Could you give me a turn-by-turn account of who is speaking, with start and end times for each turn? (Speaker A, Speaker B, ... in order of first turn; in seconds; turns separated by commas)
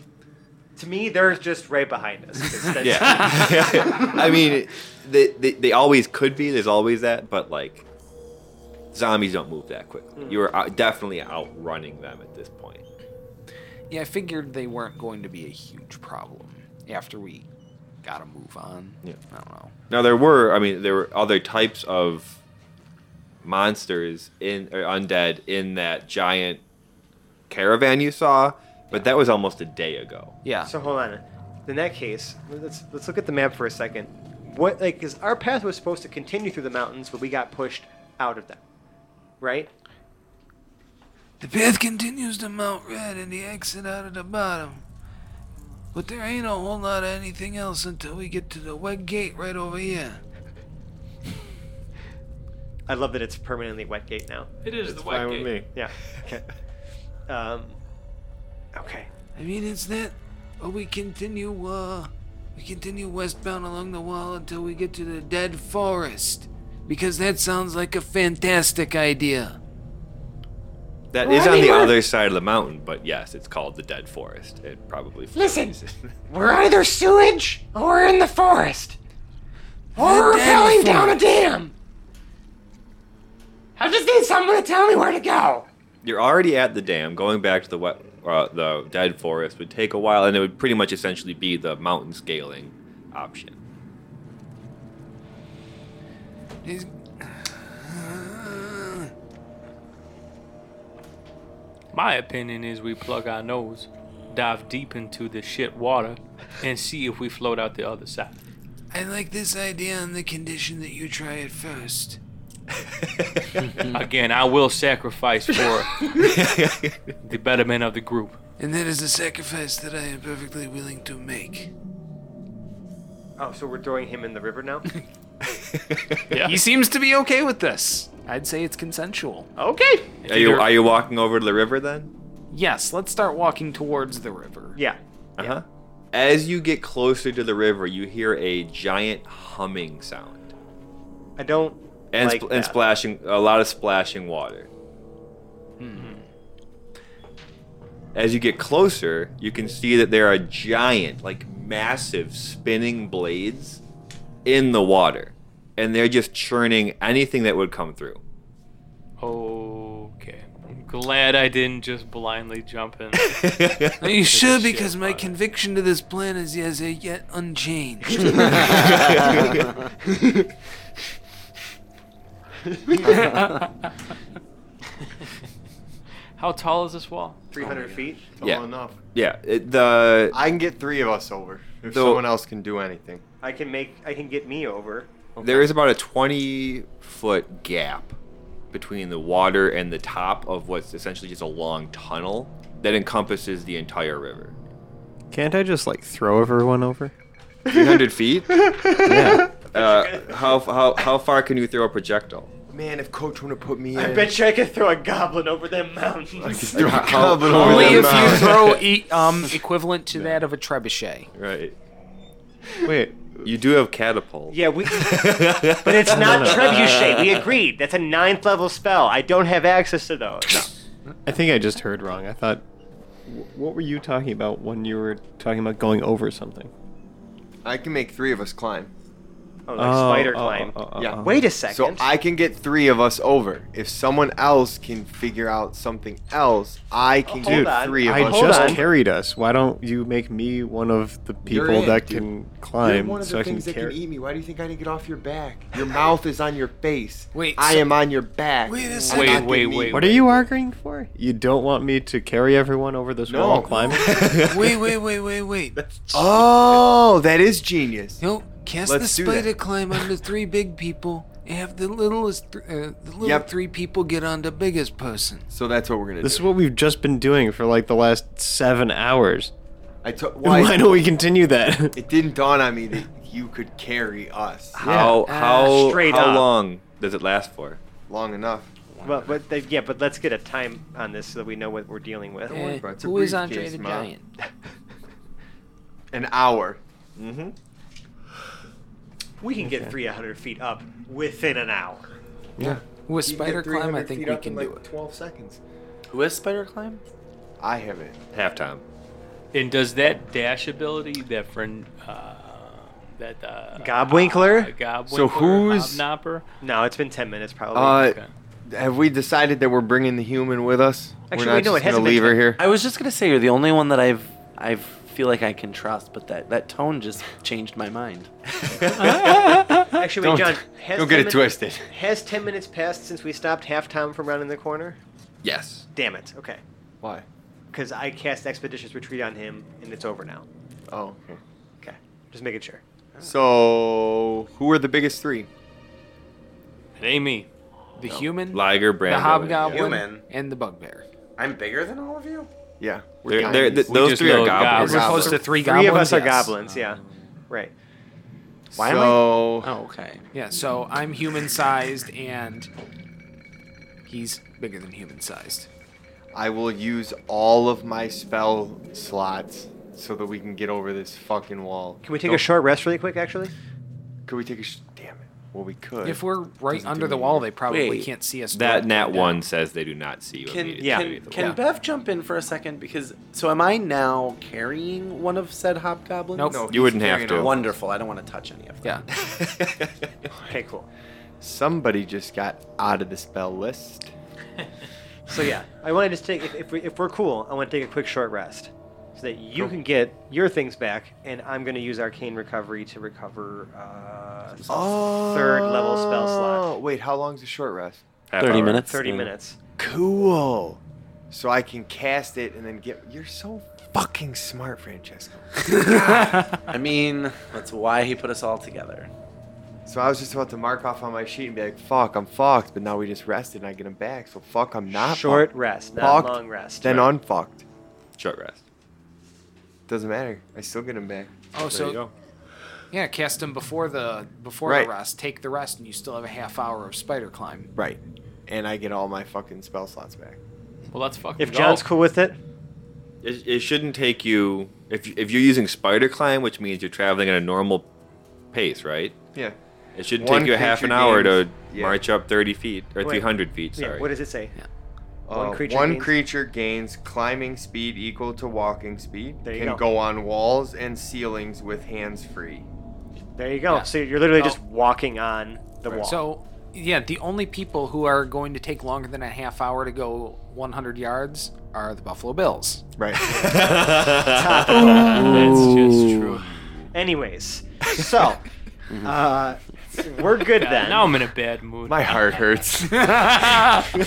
Speaker A: 0.8-4.4, Speaker B: 2.8-7.8, Speaker B: 8.9-12.8, Speaker A: 10.2-10.4, Speaker C: 13.9-17.4, Speaker C: 18.0-19.7, Speaker B: 19.9-22.4, Speaker B: 23.4-26.6, Speaker B: 27.5-30.4, Speaker C: 30.4-30.7, Speaker A: 30.6-38.6, Speaker A: 39.4-39.7, Speaker C: 41.4-44.8, Speaker C: 45.9-50.2, Speaker A: 52.9-54.5, Speaker D: 54.6-55.6, Speaker E: 54.9-55.6, Speaker F: 55.1-55.5, Speaker A: 55.7-56.5, Speaker A: 57.3-57.8, Speaker A: 58.7-59.1, Speaker C: 59.4-69.6, Speaker B: 71.1-76.1, Speaker G: 71.2-72.0, Speaker G: 75.3-75.8, Speaker G: 76.3-79.0, Speaker C: 80.0-81.2, Speaker G: 80.0-81.7, Speaker G: 83.8-85.7, Speaker B: 86.0-93.6, Speaker C: 96.6-99.1, Speaker D: 101.9-108.4, Speaker C: 108.9-112.2, Speaker B: 113.0-113.5, Speaker D: 113.9-116.1, Speaker B: 116.1-117.1, Speaker D: 117.2-118.4, Speaker C: 118.6-121.7, Speaker A: 123.4-124.9, Speaker B: 125.5-126.2, Speaker D: 126.3-126.6, Speaker C: 126.3-129.5, Speaker A: 129.6-130.1, Speaker D: 130.2-130.7, Speaker B: 130.2-132.1, Speaker C: 132.5-134.8, Speaker A: 134.8-135.6, Speaker B: 135.4-140.5, Speaker A: 141.4-142.8, Speaker B: 142.1-144.7, Speaker C: 145.8-146.2, Speaker B: 148.1-153.8, Speaker B: 154.4-158.2, Speaker D: 159.2-165.3, Speaker B: 163.2-163.9, Speaker C: 164.0-169.4, Speaker B: 168.7-169.7, Speaker E: 173.0-173.5, Speaker D: 176.4-177.4, Speaker A: 177.5-178.4, Speaker E: 177.6-179.0, Speaker B: 178.4-180.3, Speaker E: 180.3-183.2, Speaker B: 181.9-182.2, Speaker A: 183.4-185.4, Speaker E: 185.4-185.7, Speaker B: 185.4-188.2, Speaker B: 188.7-194.5, Speaker F: 195.3-197.1, Speaker B: 197.7-198.7, Speaker F: 199.0-199.5, Speaker B: 199.2-202.5, Speaker A: 199.7-200.7, Speaker E: 202.7-204.4, Speaker A: 203.9-207.2, Speaker E: 206.4-208.8, Speaker B: 206.7-208.8, Speaker C: 207.4-211.3, Speaker B: 210.1-210.4, Speaker B: 211.3-211.7, Speaker F: 212.8-213.4, Speaker B: 213.4-217.4, Speaker A: 214.5-220.7, Speaker F: 216.1-216.7, Speaker F: 221.2-222.6, Speaker F: 223.2-226.7, Speaker E: 227.6-228.9, Speaker A: 229.7-232.1, Speaker F: 229.8-231.5, Speaker E: 230.9-238.8, Speaker A: 237.2-238.8, Speaker F: 237.4-243.9, Speaker E: 241.4-242.2, Speaker E: 242.8-250.2, Speaker C: 247.3-247.9, Speaker C: 248.6-249.5, Speaker D: 249.1-250.3, Speaker F: 249.9-254.1, Speaker E: 253.3-254.2, Speaker B: 254.0-254.8, Speaker C: 254.1-256.4, Speaker E: 256.1-258.2, Speaker C: 258.2-265.5, Speaker E: 258.8-259.5, Speaker E: 263.2-263.5, Speaker E: 265.5-266.5, Speaker F: 266.2-269.5, Speaker E: 270.0-271.0, Speaker F: 270.4-272.0, Speaker E: 271.9-274.8, Speaker B: 274.8-277.8, Speaker F: 274.8-275.2, Speaker C: 275.3-275.8, Speaker A: 275.3-276.5, Speaker E: 278.1-278.7, Speaker H: 278.9-279.4, Speaker A: 279.0-282.6, Speaker C: 282.5-284.2, Speaker E: 282.5-284.1, Speaker E: 286.1-286.8, Speaker B: 287.1-287.5, Speaker A: 289.4-292.1, Speaker F: 289.6-289.9, Speaker E: 292.6-295.6, Speaker C: 293.1-294.8, Speaker H: 296.1-297.0, Speaker E: 297.6-298.1, Speaker B: 298.3-298.8, Speaker D: 299.5-306.4, Speaker A: 303.8-304.7, Speaker E: 305.1-306.0, Speaker A: 306.6-308.1, Speaker E: 307.7-308.1, Speaker D: 308.0-308.3, Speaker E: 308.7-312.6, Speaker A: 311.3-312.5, Speaker H: 312.6-318.3, Speaker B: 318.6-319.5, Speaker A: 319.9-325.0, Speaker E: 320.2-321.9, Speaker B: 325.4-325.9, Speaker A: 325.9-326.6, Speaker A: 327.7-330.4, Speaker E: 330.9-331.4, Speaker A: 331.8-332.8, Speaker E: 333.2-335.5, Speaker D: 337.0-337.5, Speaker C: 338.0-341.1, Speaker B: 338.5-339.8, Speaker H: 339.6-340.2, Speaker H: 341.4-342.5, Speaker E: 342.8-345.4, Speaker B: 343.2-345.4, Speaker D: 343.9-345.2, Speaker C: 344.7-346.5, Speaker A: 345.2-347.7, Speaker E: 348.7-349.7, Speaker H: 348.7-350.2, Speaker C: 350.3-352.7, Speaker C: 354.1-355.7, Speaker E: 356.3-362.3, Speaker A: 362.0-363.5, Speaker E: 364.2-366.2, Speaker C: 366.0-369.4, Speaker E: 366.8-367.4, Speaker H: 367.6-368.1, Speaker B: 368.5-371.5, Speaker H: 370.4-376.6, Speaker A: 370.8-371.2, Speaker C: 376.3-376.6, Speaker E: 376.5-377.7, Speaker B: 376.7-377.5, Speaker H: 377.3-379.1, Speaker B: 379.1-379.9, Speaker A: 380.4-380.9, Speaker E: 381.4-384.1, Speaker A: 385.3-396.7, Speaker E: 394.7-398.0, Speaker B: 398.3-398.9, Speaker H: 398.4-399.3, Speaker A: 398.8-399.6, Speaker E: 399.8-406.6, Speaker H: 406.7-409.1, Speaker E: 409.9-417.6, Speaker A: 414.9-417.0, Speaker B: 418.2-418.6, Speaker E: 419.9-421.3, Speaker C: 421.5-422.0, Speaker B: 421.7-422.1, Speaker C: 422.9-427.7, Speaker E: 424.6-424.9, Speaker E: 427.8-430.4, Speaker D: 430.9-431.8, Speaker A: 431.4-432.4, Speaker B: 433.2-437.9, Speaker B: 438.5-439.2, Speaker B: 439.9-444.1, Speaker E: 440.1-442.0, Speaker A: 443.0-444.6, Speaker E: 445.3-452.6, Speaker A: 445.3-446.1, Speaker A: 449.4-449.8, Speaker A: 453.4-456.2, Speaker C: 453.7-454.6, Speaker C: 456.0-462.8, Speaker E: 463.0-463.5, Speaker B: 463.2-465.3, Speaker A: 463.3-465.7, Speaker D: 464.7-466.5, Speaker H: 465.0-466.6, Speaker A: 466.9-468.4, Speaker H: 468.9-469.1, Speaker A: 469.0-471.1, Speaker D: 470.5-472.4, Speaker E: 471.9-473.3